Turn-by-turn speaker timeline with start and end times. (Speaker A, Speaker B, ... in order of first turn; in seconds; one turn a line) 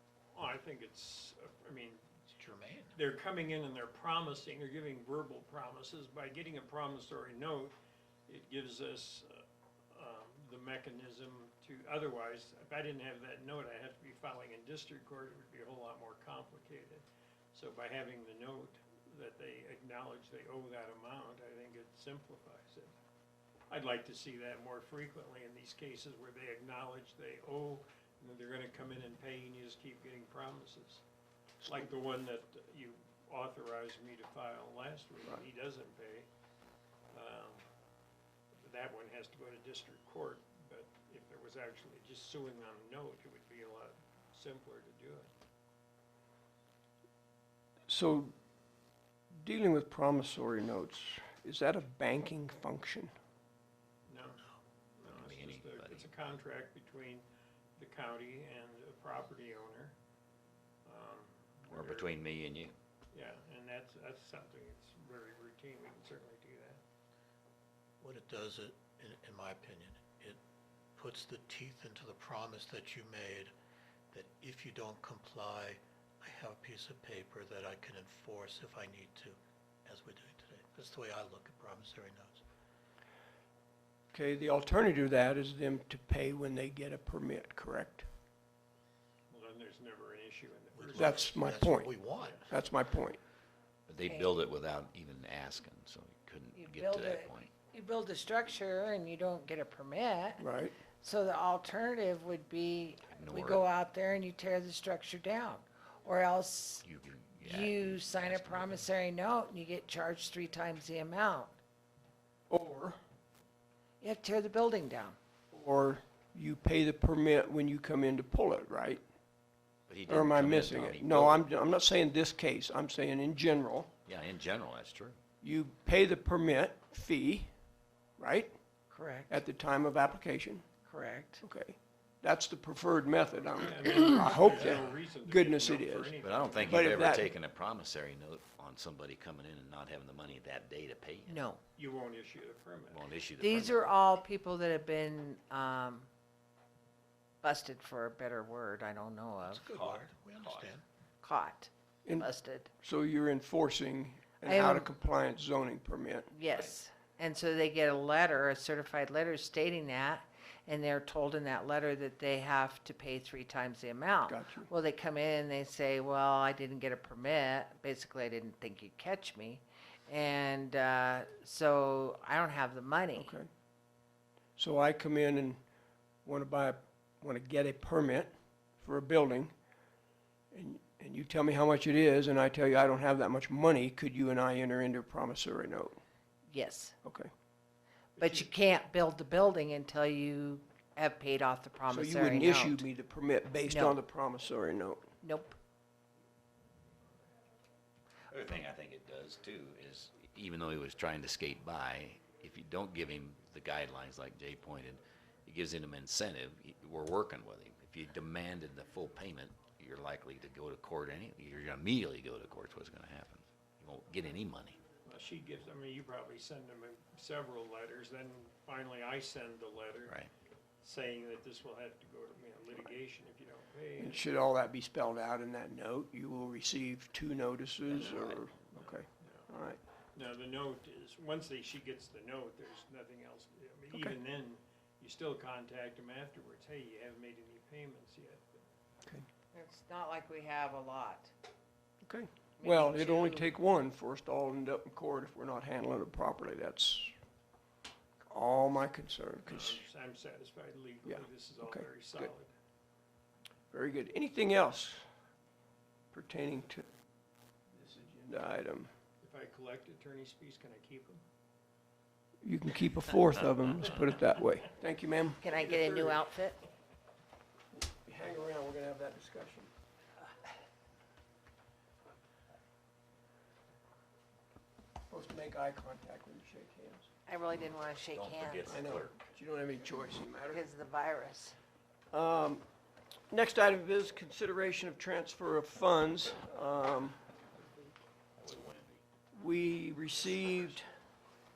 Speaker A: 0.3-2.1
Speaker B: 2.3-2.9
Speaker A: 2.9-7.7
Speaker A: 8.3-22.9
Speaker A: 23.7-31.0
Speaker A: 31.6-36.3
Speaker A: 37.1-37.6
Speaker A: 38.6-45.3
Speaker C: 47.9-48.3
Speaker C: 49.3-53.1
Speaker A: 54.1-54.5
Speaker A: 55.0-57.2
Speaker D: 55.0-56.1
Speaker A: 57.8-60.0
Speaker A: 60.9-62.1
Speaker D: 61.7-62.8
Speaker A: 63.1-66.8
Speaker B: 68.0-70.4
Speaker B: 71.0-73.5
Speaker B: 74.1-82.4
Speaker C: 84.1-88.1
Speaker A: 89.3-91.4
Speaker B: 90.7-92.5
Speaker C: 91.0-91.9
Speaker A: 92.2-92.4
Speaker C: 92.5-93.2
Speaker D: 93.9-97.5
Speaker E: 96.7-97.0
Speaker E: 97.7-100.4
Speaker C: 100.4-100.8
Speaker E: 101.0-106.8
Speaker D: 103.1-103.6
Speaker D: 106.8-108.9
Speaker E: 107.5-111.5
Speaker C: 112.5-113.0
Speaker E: 114.0-115.2
Speaker C: 115.5-119.0
Speaker D: 119.9-121.5
Speaker C: 120.1-123.9
Speaker D: 124.1-125.2
Speaker C: 125.4-127.5
Speaker C: 128.2-128.6
Speaker C: 129.3-130.7
Speaker E: 130.9-131.4
Speaker C: 131.4-137.3
Speaker A: 133.6-137.1
Speaker D: 134.5-134.8
Speaker D: 136.2-141.4
Speaker E: 141.3-141.6
Speaker A: 141.8-143.0
Speaker D: 142.9-143.9
Speaker E: 143.7-146.1
Speaker E: 147.4-149.6
Speaker B: 149.4-150.8
Speaker D: 149.7-150.7
Speaker E: 151.2-152.7
Speaker C: 152.1-156.3
Speaker E: 154.5-154.8
Speaker E: 156.3-173.3
Speaker C: 164.3-164.7
Speaker C: 173.2-173.5
Speaker C: 174.6-175.6
Speaker C: 176.2-179.6
Speaker C: 180.5-186.0
Speaker E: 186.5-186.9
Speaker C: 187.0-187.3
Speaker A: 188.2-188.5
Speaker E: 188.2-192.8
Speaker C: 191.9-195.1
Speaker E: 193.7-194.0
Speaker E: 195.2-195.6
Speaker D: 198.3-214.8
Speaker A: 215.1-220.2
Speaker A: 220.8-224.2
Speaker C: 224.0-229.8
Speaker A: 227.9-229.5
Speaker A: 230.2-238.6
Speaker C: 233.9-234.2
Speaker E: 239.5-241.3
Speaker C: 242.1-247.1
Speaker E: 242.6-243.5
Speaker C: 248.2-249.8
Speaker A: 249.5-252.5
Speaker C: 251.1-252.3
Speaker C: 253.7-255.1
Speaker C: 256.1-256.8
Speaker C: 257.7-258.9
Speaker A: 259.2-261.2
Speaker C: 262.4-266.0
Speaker E: 265.4-266.6
Speaker A: 265.6-266.1
Speaker C: 267.8-269.7
Speaker C: 275.1-277.1
Speaker E: 277.3-278.7
Speaker D: 278.1-279.3
Speaker C: 278.7-280.7
Speaker E: 280.5-281.6
Speaker C: 282.1-282.6
Speaker C: 283.3-287.2
Speaker D: 288.4-289.0
Speaker C: 289.3-290.9